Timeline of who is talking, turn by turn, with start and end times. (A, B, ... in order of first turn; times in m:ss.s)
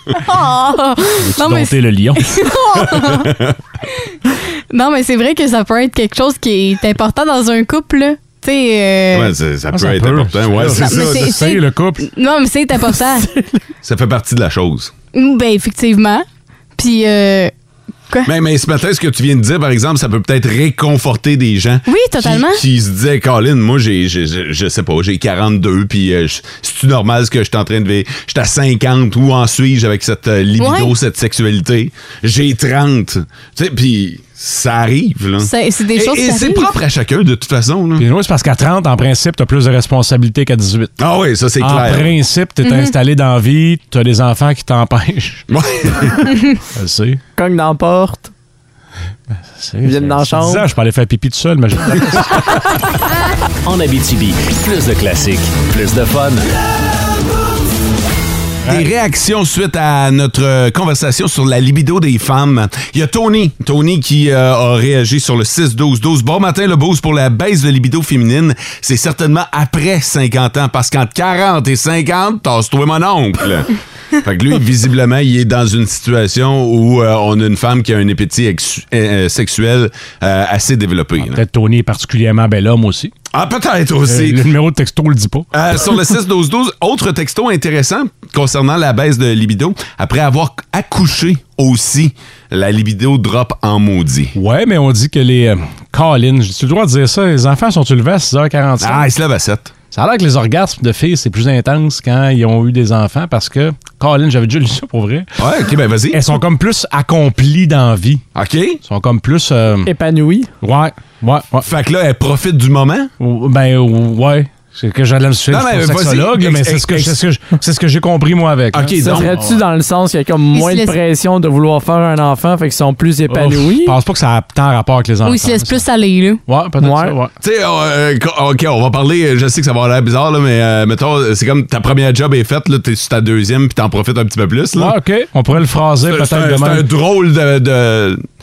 0:00.1-0:03.3 A
0:01.2-0:02.4 B
0:02.8-0:03.6 C
0:04.7-0:09.3 A
0:09.1-0:11.4 C
0:09.7-0:12.1 B
0:10.8-0:13.3 A
0:13.8-0:14.9 C
0:15.1-0:16.2 A
0:16.8-0:17.5 A
0:18.2-0:38.1 C
0:21.9-0:22.6 A
0:30.6-0:30.9 A
0:35.4-0:36.7 A
0:38.0-0:41.0 B
0:41.0-0:42.2 C
0:41.6-0:45.4 B
0:42.6-0:42.9 A
0:45.5-0:46.3 C
0:46.7-0:47.2 B
0:47.4-0:48.3 D
0:49.5-0:52.5 B
0:49.8-0:50.7 D
0:53.6-0:56.4 E
0:58.7-1:21.4 C
1:21.2-1:23.1 B
1:23.3-1:24.5 C
1:24.1-1:25.5 B
1:25.5-1:34.4 C
1:34.4-1:39.0 B
1:38.8-1:39.7 C
1:39.9-1:45.3 B
1:45.4-1:46.2 C
1:46.1-1:48.2 B
1:48.4-1:48.8 C
1:48.8-1:49.9 B
1:49.8-1:50.5 D
1:50.6-1:51.7 B
1:51.6-1:53.1 C
1:53.2-1:59.6 B
1:55.5-1:57.2 C
1:58.7-1:59.3 C
1:59.0-2:04.0 D
2:00.6-2:01.0 A
2:03.3-2:05.8 B
2:05.2-2:06.4 A
2:06.5-2:07.3 B
2:06.8-2:07.2 D
2:07.4-2:15.0 C
2:14.8-2:16.9 B
2:16.1-2:18.2 C